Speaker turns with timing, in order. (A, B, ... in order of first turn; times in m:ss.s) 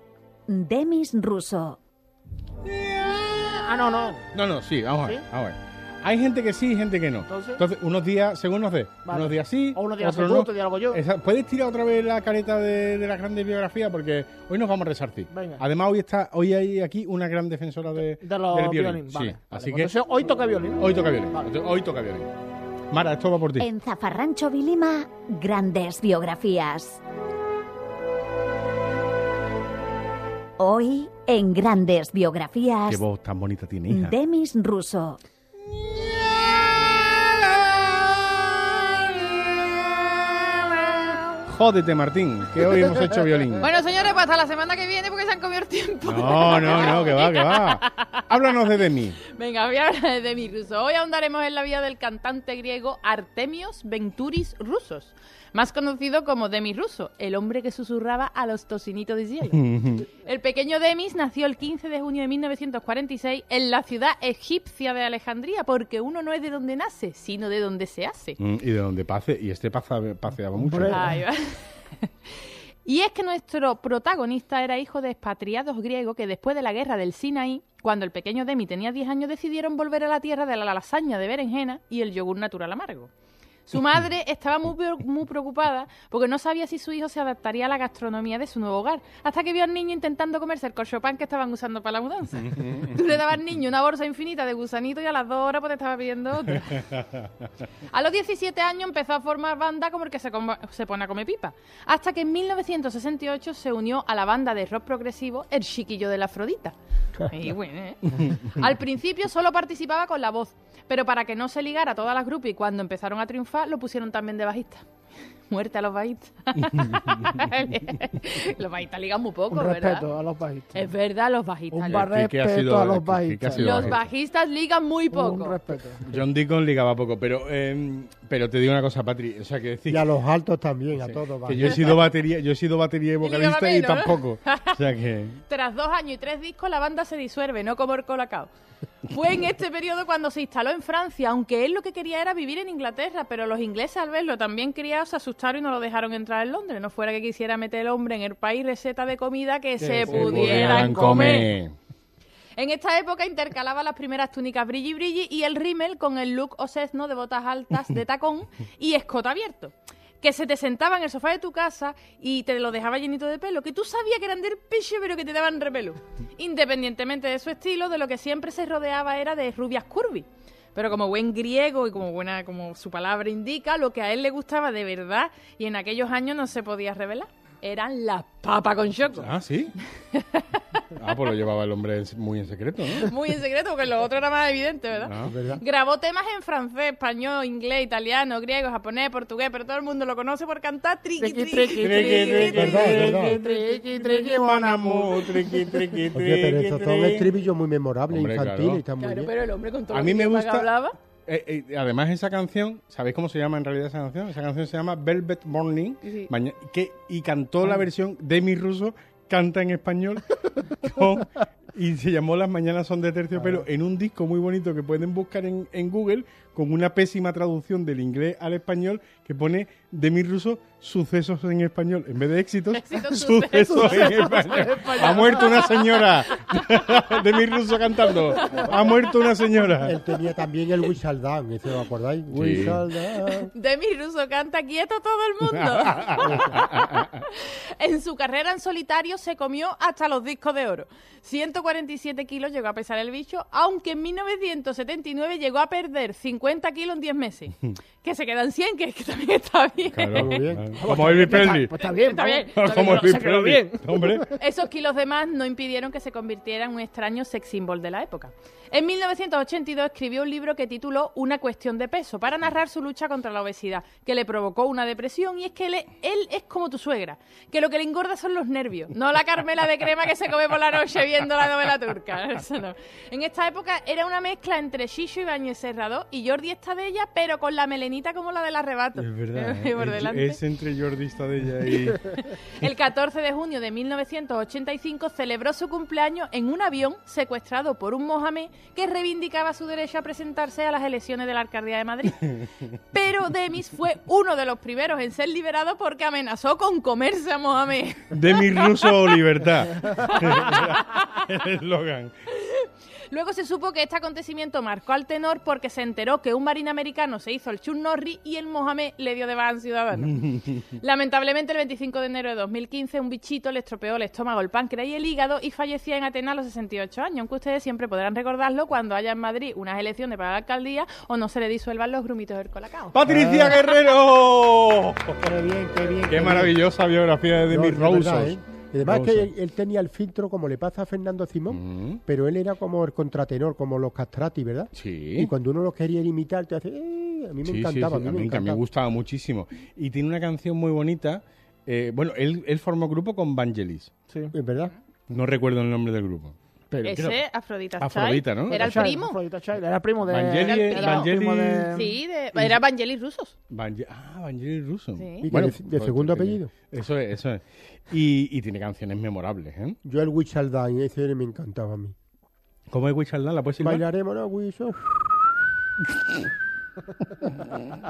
0:00.5-0:01.8 A
0:02.6-0:03.6 B
0:03.6-0:04.3 C
0:04.3-0:19.9 B
0:07.3-0:07.6 C
0:09.0-0:11.0 C
0:15.3-0:15.6 C
0:18.2-0:21.5 C
0:20.8-0:22.3 B
0:22.9-0:23.7 B
0:23.6-0:27.0 A
0:30.6-0:33.0 A
0:32.9-0:34.1 B
0:33.9-0:35.2 A
0:40.3-0:41.4 D
0:41.5-0:43.6 B
0:43.6-0:48.1 D
0:46.0-0:49.2 B
0:49.3-1:08.4 D
0:59.5-1:00.1 B
1:08.4-1:11.0 B
1:10.6-1:11.2 C
1:10.9-1:11.6 D
1:12.8-1:23.1 D
1:23.7-1:36.9 D
1:32.5-1:32.9 B
1:36.7-1:37.2 B
1:37.9-1:54.8 D
1:55.5-2:00.0 D
1:56.7-1:57.2 B
1:59.5-2:00.8 C
2:00.7-2:02.1 D
2:01.7-2:04.0 C
2:01.9-2:04.1 B
2:03.6-2:05.6 D
2:05.1-2:06.0 C
2:06.0-2:10.1 B
2:09.9-2:12.0 E
2:11.0-2:15.4 B
2:13.2-2:14.8 D
2:15.5-2:18.5 D
2:19.1-2:31.5 D
2:29.8-2:31.5 C
2:30.1-2:31.7 B
2:32.6-2:59.3 D
2:59.2-2:59.7 B
3:00.1-3:00.6 D
3:00.9-3:03.1 B
3:02.9-3:14.6 D
3:05.0-3:05.3 B
3:05.2-3:05.6 E
3:11.2-3:14.9 C
3:11.8-3:17.3 B
3:12.5-3:13.4 E
3:16.1-3:19.3 E
3:18.1-3:18.8 B
3:19.0-3:20.9 D
3:19.9-3:20.7 B
3:21.2-3:50.0 B
3:26.0-3:26.3 D
3:33.3-3:33.6 E
3:42.8-3:46.6 D
3:43.6-3:45.4 C
3:49.8-3:53.5 E
3:52.3-3:52.8 B
3:53.5-4:10.4 D
3:55.5-3:57.2 B
4:09.9-4:11.7 B
4:10.1-4:10.9 E
4:10.8-4:14.3 C
4:11.8-4:13.1 D
4:12.5-4:14.3 B
4:14.4-4:40.4 D
4:39.0-4:42.0 B
4:41.8-4:52.4 D
4:52.9-4:59.2 D
4:58.1-5:02.1 B
4:59.8-5:01.1 D
5:02.4-5:23.0 D
5:10.0-5:10.7 B
5:22.9-5:25.3 B
5:23.0-5:23.5 E
5:25.2-5:26.6 E
5:26.1-5:29.3 B
5:27.5-5:38.6 E
5:31.5-5:32.0 B
5:34.7-5:35.3 B
5:37.4-5:43.9 B
5:44.3-5:44.7 E
5:45.1-5:47.2 B
5:46.8-5:49.2 D
5:47.8-5:48.9 B
5:48.5-5:51.9 C
5:50.1-5:51.7 B
5:50.4-5:51.1 D
5:51.7-5:53.3 D
5:53.5-5:59.8 B
5:55.0-5:55.2 D
5:55.2-5:56.5 E
5:59.8-6:01.9 E
6:02.7-6:03.8 B
6:03.6-6:05.4 E